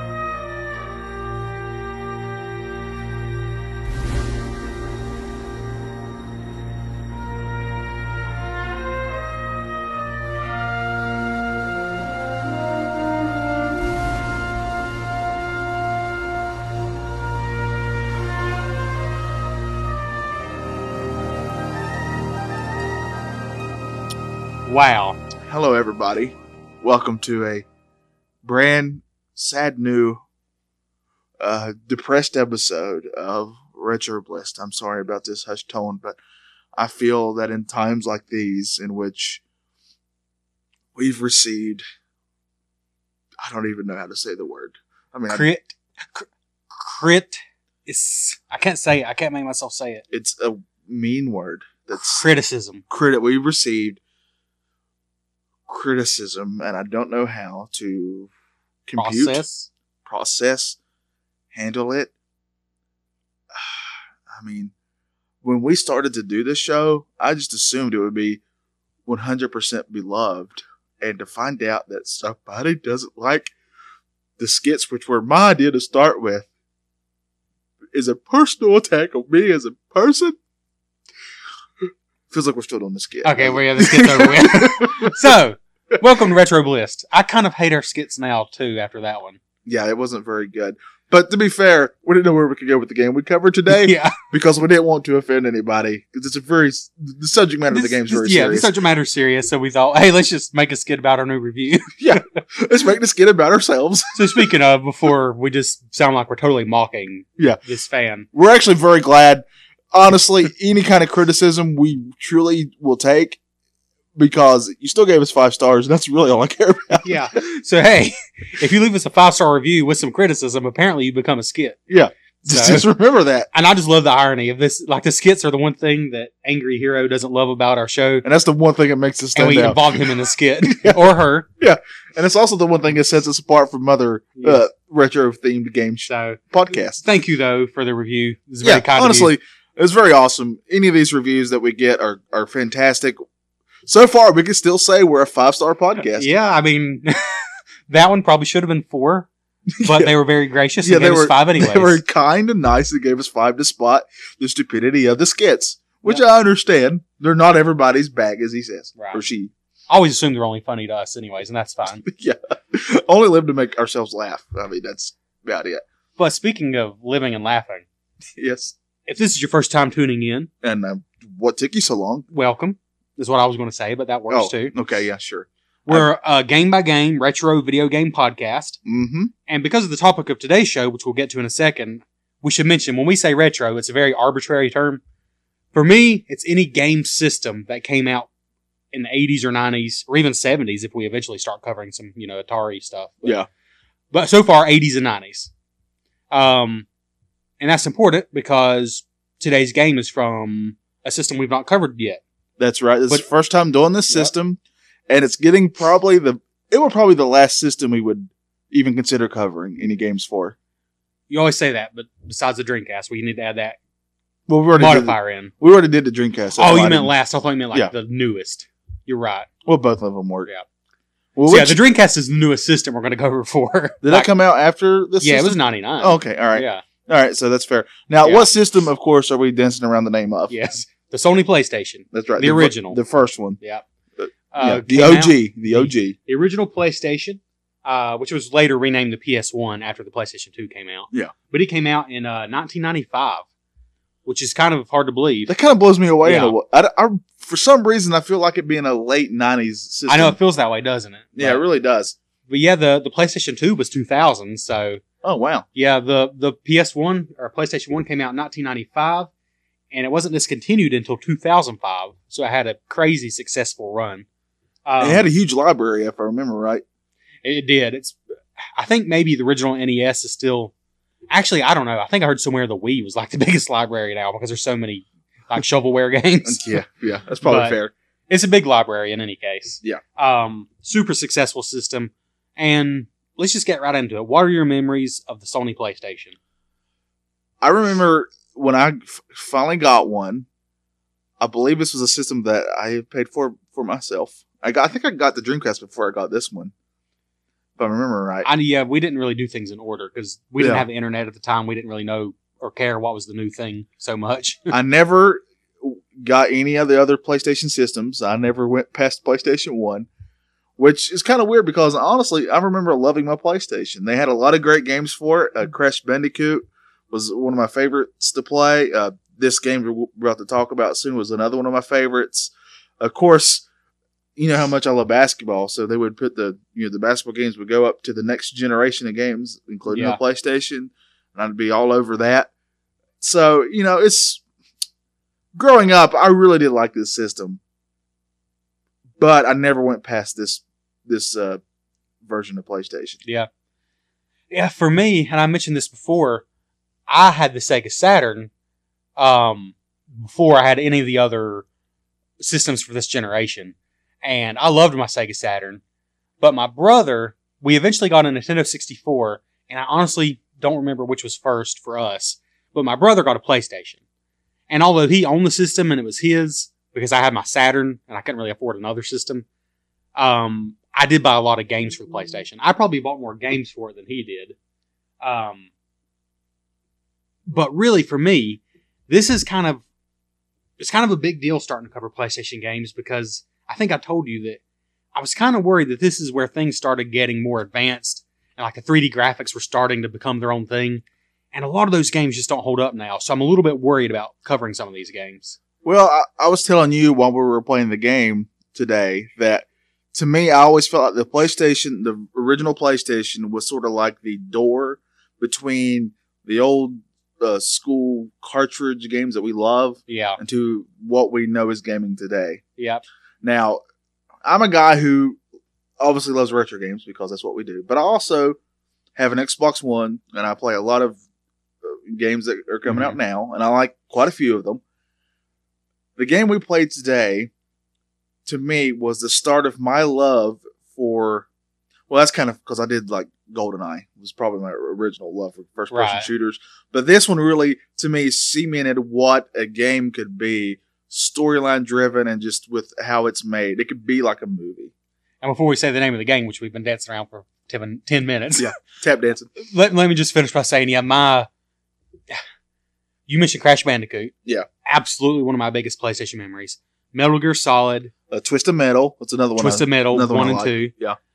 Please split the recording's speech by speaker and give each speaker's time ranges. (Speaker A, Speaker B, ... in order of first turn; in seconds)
Speaker A: 24.6-25.2, 45.3-50.0, 52.0-52.8, 59.0-59.7, 83.2-89.4, 93.7-94.2, 97.7-102.2, 104.1-108.3, 117.0-121.8, 122.5-122.9, 123.5-128.2, 129.3-131.5, 134.4-134.6, 136.1-139.3, 146.1-149.3, 149.8-152.0, 159.9-162.0, 166.2-167.8, 169.1-170.5, 172.3-174.7, 175.9-178.8, 179.5-185.0, 185.7-188.3, 188.9-193.4, 194.1-195.5, 196.3-196.8, 197.6-202.2, 211.3-213.8, 214.8-215.5, 216.6-219.5, 221.5-224.3, 225.2-226.8, 228.2-228.5, 230.5-233.0, 234.5-243.4, 244.2-245.5, 246.2-246.6, 250.1-251.6, 252.5-255.0, 255.7-259.3, 259.9-264.2, 264.9-265.3, 267.4-270.7, 271.3-276.8, 277.4-277.8, 278.3-286.4, 298.4-304.8, 329.9-330.2, 344.5-346.4, 347.1-348.5, 349.2-351.6, 352.4-355.8, 356.4-364.0, 364.7-369.4, 370.1-374.6, 375.2-375.7, 377.4-379.8, 380.8-384.6, 385.1-395.6, 410.1-410.4, 412.8-413.0, 422.9-423.2, 435.9-436.3, 445.4-448.7, 449.6-451.5, 453.3-454.3, 454.8-458.1, 459.6-460.9
Speaker B: 25.4-27.6, 28.4-30.2, 31.4-36.2, 36.8-39.4, 40.9-41.8, 43.4-45.5, 50.1-52.2, 52.9-54.0, 55.7-58.3, 58.9-59.4, 60.0-60.8, 61.5-62.1, 64.3-64.7, 65.4-68.4, 69.0-73.5, 74.4-76.5, 77.9-80.4, 82.3-85.3, 89.7-98.7, 102.0-104.4, 108.3-113.4, 114.1-117.1, 121.9-123.5, 128.2-130.1, 130.7-131.0, 131.6-137.0, 138.6-143.2, 143.9-146.3, 149.8-150.1, 150.8-159.5, 162.0-165.8, 168.4-168.7, 170.6-172.3, 174.3-176.1, 178.8-179.3, 202.6-210.5, 214.5-217.1, 219.7-220.5, 221.3-221.8, 224.0-230.6, 232.1-233.6, 234.2-236.1, 245.5-250.4, 251.3-252.2, 255.2-255.6, 265.0-266.8, 276.4-277.9, 287.6-290.4, 291.4-296.7, 297.8-298.5, 300.6-300.9, 304.7-310.1, 310.8-323.6, 324.4-332.5, 333.2-334.4, 335.5-337.6, 339.2-341.6, 342.2-343.2, 395.8-412.6, 413.4-413.8, 414.4-415.4, 416.0-418.6, 419.1-421.2, 421.8-424.8, 426.2-427.5, 428.4-431.5, 432.1-444.9, 448.6-449.5, 458.3-461.2